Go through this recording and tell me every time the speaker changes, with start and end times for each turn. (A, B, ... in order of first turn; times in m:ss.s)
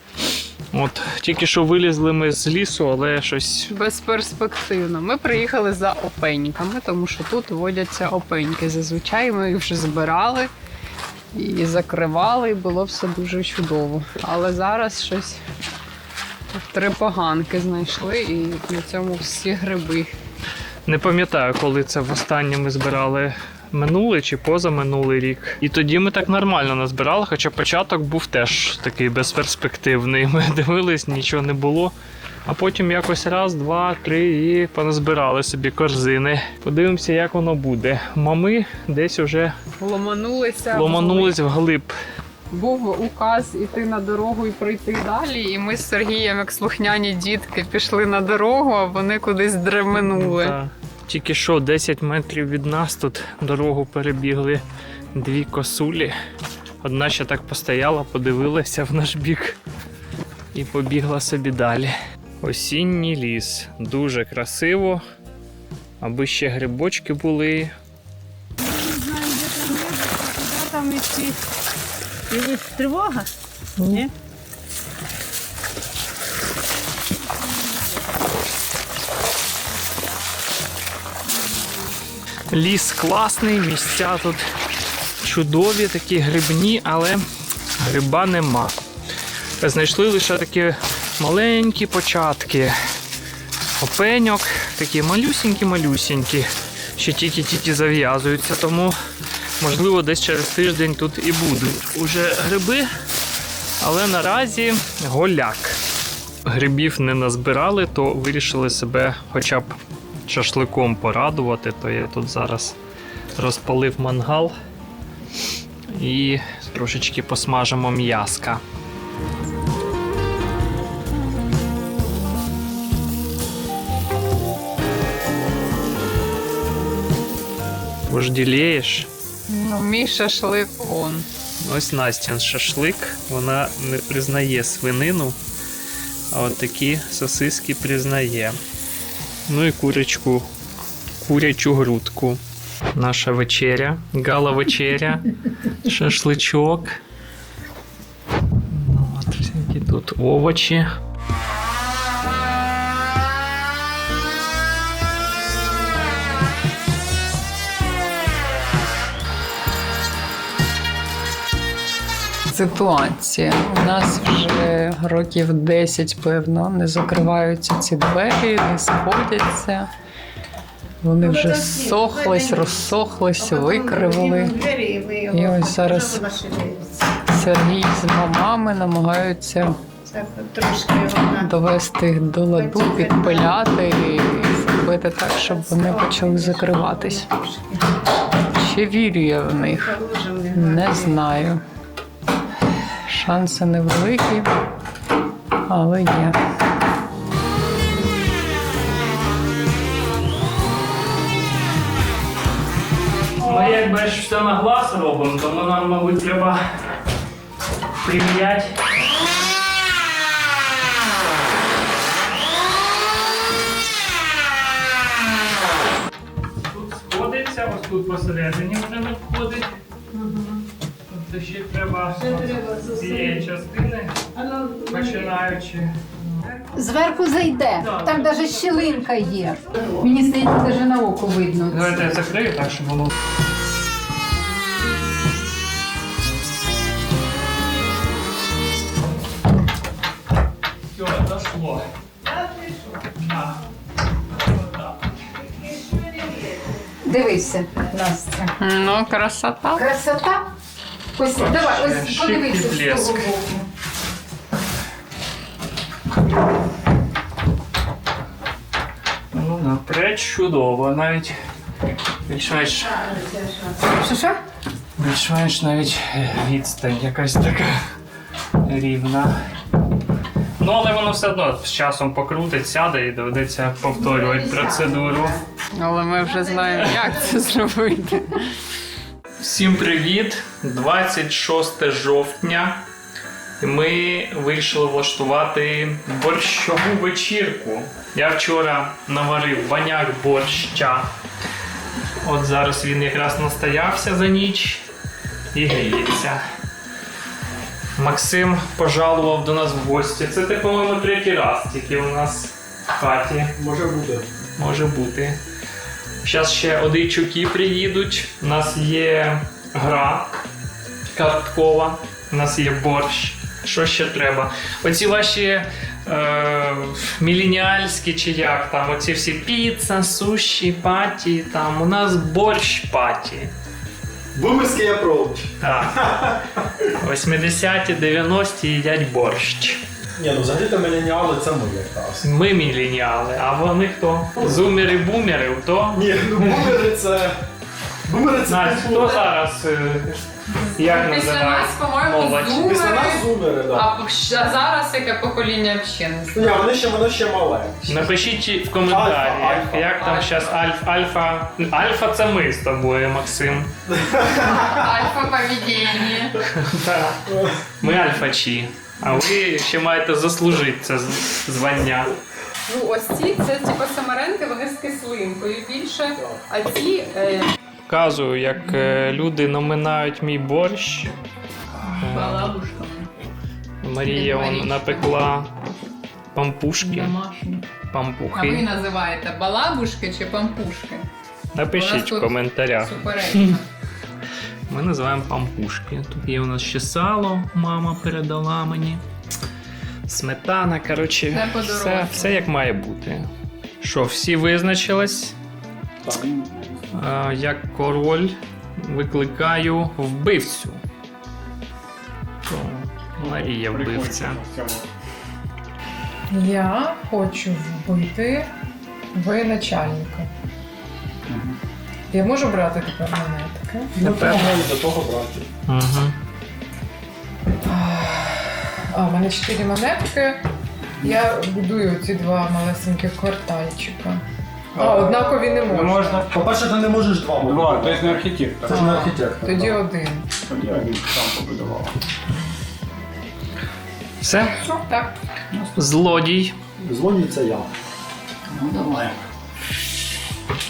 0:00.7-0:03.7 A
0:03.7-0:10.5 B
0:11.3-0:15.4 B
0:16.5-0:20.1 B
0:20.8-0:31.9 A
0:32.4-0:39.5 A
0:39.8-0:41.4 B
0:40.7-0:41.9 A
0:42.5-0:50.6 B
0:50.1-0:56.1 A
0:56.8-0:59.6 A
1:00.5-1:05.0 A
1:06.0-1:07.7 A
1:08.6-1:11.4 C
1:12.3-1:13.3 C
1:22.5-1:24.4 A
1:25.2-1:27.2 A
1:27.8-1:28.8 A
1:29.6-1:32.7 A
1:33.8-1:38.9 A
1:39.6-1:42.9 A
1:43.8-1:45.8 A
1:46.4-1:52.8 A
1:53.4-1:54.5 A
1:55.9-1:58.6 A
2:08.1-2:09.1 A
2:09.5-2:11.2 B
2:11.6-2:15.4 A
2:16.3-2:18.6 A
2:19.5-2:20.5 A
2:21.2-2:22.4 A
2:22.9-2:25.3 A
2:25.8-2:27.0 A
2:28.7-2:31.0 A
2:42.5-2:49.9 B
2:51.0-2:54.6 B
2:51.2-2:52.8 C
2:53.4-2:56.9 C
2:55.3-2:56.2 B
2:57.3-2:59.8 B
3:00.1-3:01.5 C
3:01.1-3:07.4 B
3:02.6-3:03.4 C
3:05.8-3:07.2 C
3:08.5-3:09.9 B
3:09.5-3:11.1 C
3:10.5-3:11.6 B
3:13.1-3:14.5 B
3:15.7-3:16.4 B
3:23.4-3:26.7 A
3:28.0-3:28.7 A
3:36.6-3:39.7 A
3:41.1-3:44.2 A
3:42.6-3:43.3 C
3:44.4-3:45.4 C
3:44.8-3:46.0 A
3:46.7-3:52.2 D
3:51.7-3:53.1 A
4:00.9-4:01.9 A
4:03.2-4:03.6 A
4:05.9-4:06.4 C
4:07.0-4:08.5 D
4:08.6-4:09.8 B
4:09.7-4:10.4 D
4:11.1-4:13.6 D
4:11.3-4:13.3 A
4:19.3-4:21.3 A
4:22.2-4:23.0 A
4:23.9-4:24.4 D
4:25.0-4:27.8 A
4:28.6-4:29.4 A
4:30.6-4:35.4 A
4:35.7-4:38.4 B
4:39.4-4:42.8 A
4:43.6-4:51.1 A
4:52.2-4:54.8 A
4:55.5-4:56.4 A
4:58.0-5:03.5 A
5:03.6-5:04.2 E
5:04.6-5:05.4 A
5:06.2-5:10.3 A
5:11.1-5:23.5 A
5:24.3-5:26.6 E
5:25.6-5:26.1 A
5:27.0-5:29.8 A
5:30.2-5:32.3 E
5:32.2-5:36.1 A
5:35.9-5:37.4 E
5:38.0-5:39.3 E
5:38.5-5:42.7 A
5:40.7-5:43.2 B
5:42.4-5:43.9 E
5:43.7-5:46.6 B
5:46.3-5:48.1 E
5:47.9-5:53.7 A
5:48.8-5:50.1 E
5:53.9-5:54.8 E
5:54.5-5:56.4 B
5:56.5-6:02.1 A
6:02.7-6:07.5 B
6:07.9-6:11.1 A
6:11.8-6:13.1 B
6:12.0-6:12.6 A
6:13.8-6:15.5 A
6:14.0-6:15.1 B
6:16.3-6:17.1 A
6:16.8-6:17.6 B
6:17.9-6:18.6 A
6:18.3-6:21.0 B
6:21.5-6:23.6 A
6:21.7-6:23.6 B
6:24.7-6:29.0 A
6:30.1-6:33.3 A
6:31.3-6:32.4 B
6:33.8-6:35.3 A
6:36.0-6:36.7 E
6:36.9-6:40.8 A
6:42.4-6:44.4 A
6:43.2-6:44.8 F
6:46.3-6:48.5 G
6:49.1-6:50.3 G
6:52.1-6:54.4 G
6:54.0-6:55.4 E
6:54.0-6:54.4 A
6:55.7-6:56.1 A
6:57.6-7:00.4 G
7:01.0-7:04.2 G
7:04.8-7:06.3 G
7:04.8-7:05.2 E
7:05.7-7:06.2 F
7:06.2-7:09.8 E
7:07.4-7:08.9 F
7:08.7-7:10.2 G
7:10.5-7:11.9 F
7:10.8-7:11.1 E
7:14.2-7:14.5 A
7:14.6-7:15.1 G
7:15.7-7:16.5 A
7:16.8-7:17.7 E
7:18.5-7:19.1 E